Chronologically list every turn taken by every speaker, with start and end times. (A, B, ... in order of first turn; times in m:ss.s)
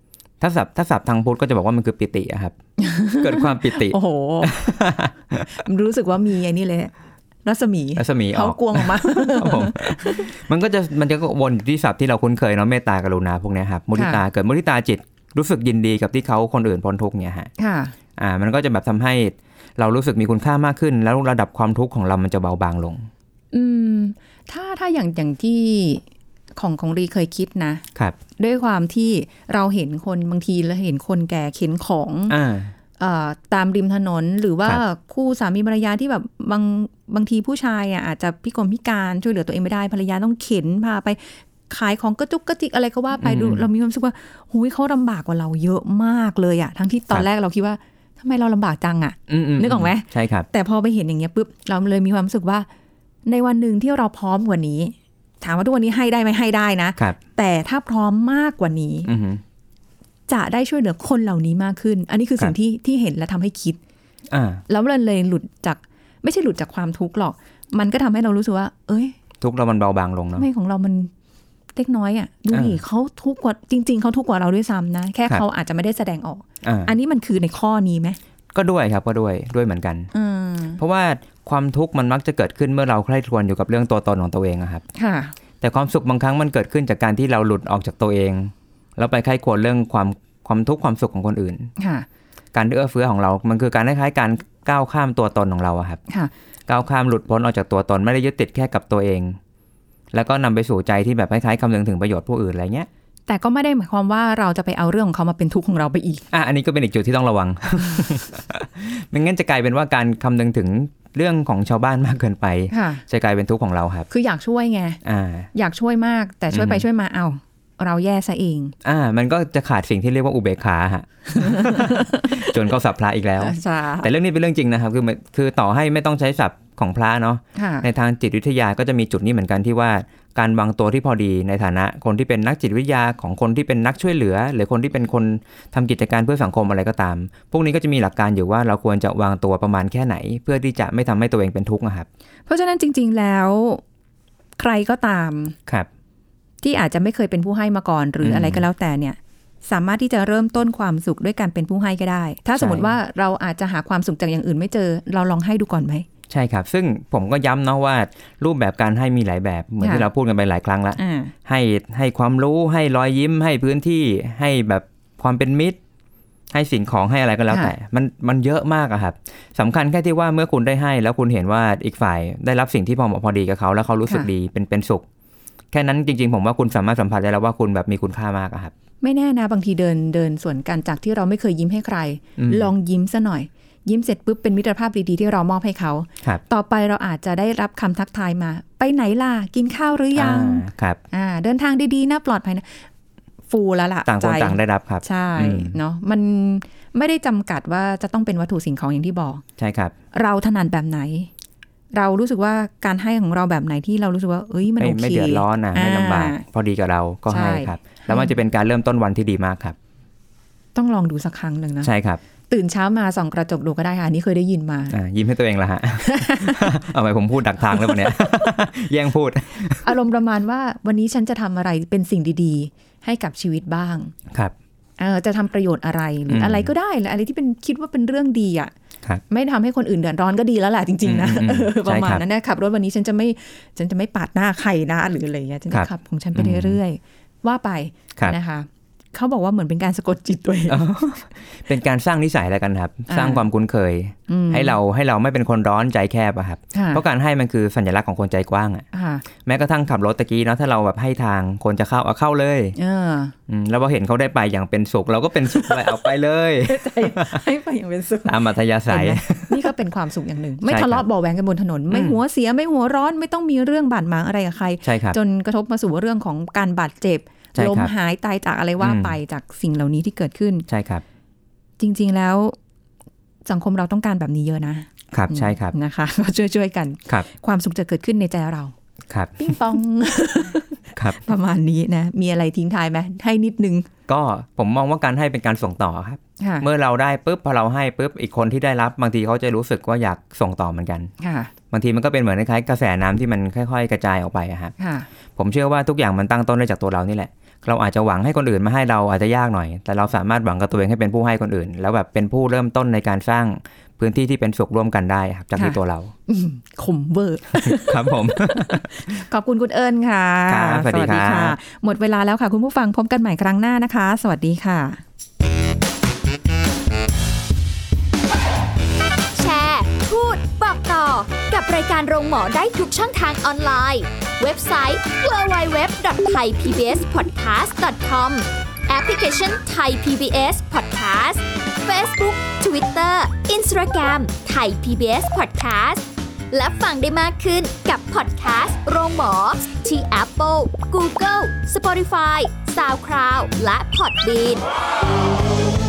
0:00.4-0:02.6 A
0:02.8-0:04.6 B
0:03.2-0:05.6 A
0:05.5-0:06.9 B
0:07.4-0:10.3 B
0:08.0-0:17.5 A
0:14.0-0:14.2 B
0:17.6-0:18.0 B
0:18.2-0:23.1 A
0:23.5-0:26.0 B
0:26.6-0:27.8 B
0:28.4-0:32.4 B
0:32.3-0:32.7 A
0:33.0-0:52.7 B
0:43.2-0:43.6 A
0:49.3-0:50.5 A
0:53.3-0:59.1 B
0:59.1-0:59.4 A
1:00.3-1:03.8 B
1:04.3-1:04.6 A
1:04.7-1:09.1 B
1:09.4-1:10.5 A
1:10.4-1:11.1 B
1:11.8-1:18.2 B
1:12.5-1:12.8 A
1:16.6-1:16.9 A
1:18.5-1:20.1 A
1:20.1-1:20.8 B
1:20.8-1:24.8 A
1:25.0-1:25.4 B
1:25.6-1:31.7 A
1:31.8-1:32.1 B
1:32.5-1:36.0 A
1:36.7-1:39.4 A
1:40.1-1:42.9 A
1:43.3-1:46.2 B
1:46.3-1:54.1 A
1:52.7-1:53.0 B
1:54.1-1:55.0 B
1:55.0-1:55.5 A
1:55.5-1:58.8 B
1:56.5-1:56.8 A
1:58.8-2:22.1 A
2:01.3-2:02.6 B
2:03.4-2:04.1 B
2:07.6-2:07.9 B
2:22.5-2:23.8 B
2:24.6-2:25.6 B
2:26.6-2:36.1 B
2:28.2-2:28.6 A
2:32.6-2:32.9 A
2:36.3-2:45.8 A
2:39.8-2:40.1 B
2:41.0-2:41.3 B
2:46.5-2:55.0 A
2:55.7-2:58.7 A
2:59.0-3:12.9 B
3:02.4-3:02.7 A
3:10.2-3:11.0 A
3:13.5-3:19.4 B
3:14.1-3:15.8 A
3:19.6-3:19.9 A
3:20.1-3:21.3 B
3:22.0-3:26.4 B
3:24.8-3:29.8 A
3:27.3-3:28.3 B
3:30.8-3:31.9 B
3:31.8-3:32.2 A
3:32.5-3:35.0 B
3:34.9-3:40.0 A
3:36.0-3:36.7 B
3:37.7-3:38.3 B
3:39.8-3:44.1 B
3:45.0-3:48.7 B
3:46.3-3:46.7 A
3:49.3-4:00.9 B
3:51.0-3:52.2 A
3:55.7-3:56.8 A
4:00.7-4:08.9 A
4:03.1-4:03.5 B
4:04.3-4:04.8 B
4:06.7-4:07.0 B
4:08.9-4:09.3 B
4:09.4-4:12.8 A
4:12.8-4:13.4 B
4:13.5-4:17.4 A
4:16.6-4:30.7 B
4:18.2-4:19.7 A
4:20.6-4:21.1 A
4:21.9-4:22.2 A
4:24.8-4:25.2 A
4:27.6-4:27.9 A
4:28.8-4:29.2 A
4:30.7-4:31.0 A
4:31.8-4:32.6 B
4:33.5-4:38.7 B
4:35.1-4:35.7 A
4:39.1-4:39.7 A
4:39.4-4:43.9 B
4:41.0-4:41.2 A
4:44.1-4:51.1 A
4:46.4-4:46.7 B
4:51.2-4:51.5 B
4:51.7-4:54.7 A
4:54.8-4:55.1 B
4:55.4-5:06.1 A
5:05.6-5:15.0 B
5:07.5-5:09.2 A
5:10.5-5:11.6 A
5:19.4-5:44.7 C